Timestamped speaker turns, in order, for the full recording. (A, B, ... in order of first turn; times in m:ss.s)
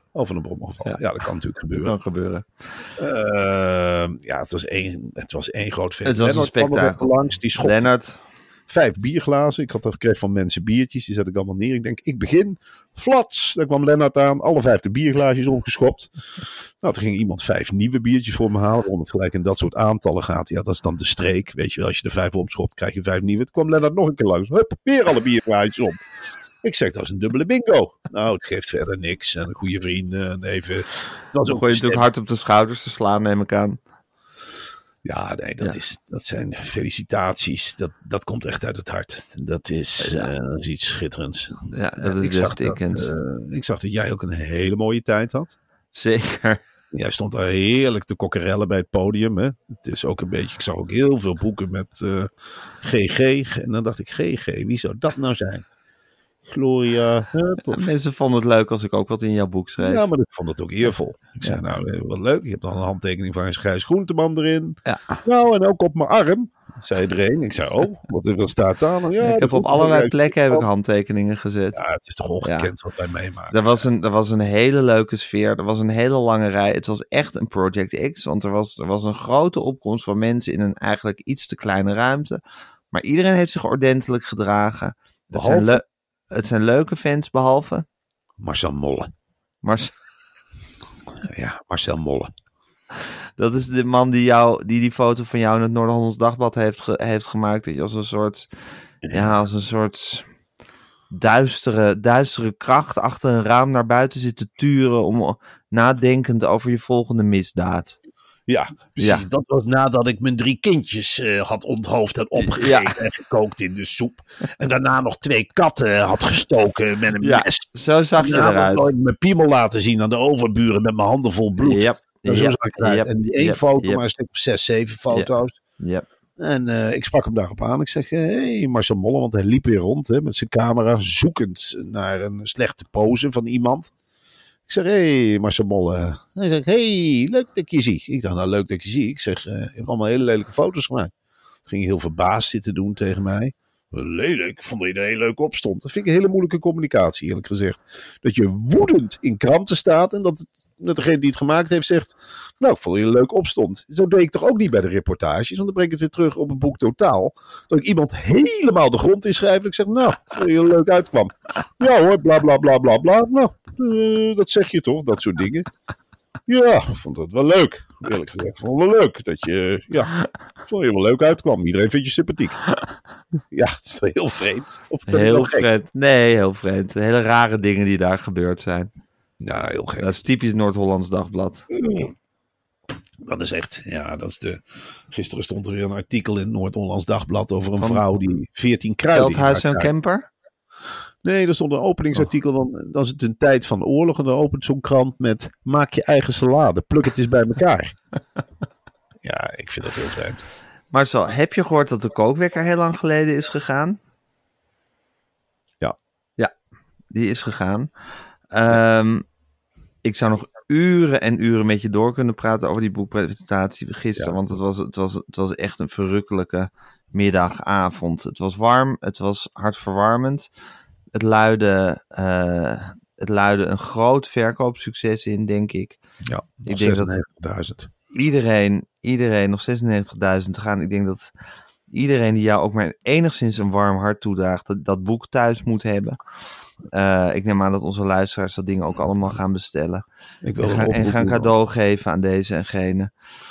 0:00.1-0:01.9 A
0:01.7-0:02.5 B
0:03.0-0:07.9 A
0:06.0-0:08.2 B
0:08.7-0:26.0 A
0:26.6-0:32.1 A
0:31.4-0:33.8 B
0:35.0-0:45.6 A
0:40.0-0:40.3 B
0:41.7-0:43.1 B
0:45.9-0:46.6 B
0:46.9-0:55.6 A
0:56.4-0:57.9 A
0:57.7-1:00.1 B
0:59.8-1:10.7 A
1:04.8-1:05.2 B
1:09.2-1:11.8 B
1:11.8-1:13.9 A
1:12.4-1:12.7 B
1:13.5-1:22.4 B
1:22.9-1:27.8 B
1:25.3-1:25.8 A
1:28.4-1:29.1 A
1:29.6-1:29.9 B
1:31.2-1:32.3 A
1:33.4-1:38.5 B
1:39.0-1:39.4 A
1:39.1-1:40.2 B
1:41.1-1:48.0 B
1:48.5-2:05.6 A
1:49.0-1:49.2 B
1:52.4-1:52.9 B
1:57.2-1:58.9 B
2:01.6-2:04.0 B
2:05.1-2:06.1 B
2:06.4-2:13.9 A
2:14.7-2:21.1 A
2:21.6-2:45.7 A
2:46.5-2:50.1 A
2:50.6-2:52.6 A
2:53.5-2:55.7 A
2:55.1-2:58.9 B
2:59.4-3:00.2 A
3:00.0-3:01.6 B
3:01.7-3:02.1 A
3:03.2-3:09.9 A
3:09.1-3:10.3 B
3:11.2-3:17.9 A
3:19.2-3:20.4 A
3:20.9-3:24.0 B
3:27.1-3:27.9 B
3:28.5-3:29.2 B
3:30.0-3:40.5 B
3:34.2-3:34.6 A
3:41.1-3:46.0 B
3:46.2-3:47.9 A
3:46.7-3:47.1 B
3:48.1-3:51.3 B
3:51.9-3:56.2 B
3:56.9-4:00.0 B
4:00.4-4:01.5 A
4:00.6-4:03.1 B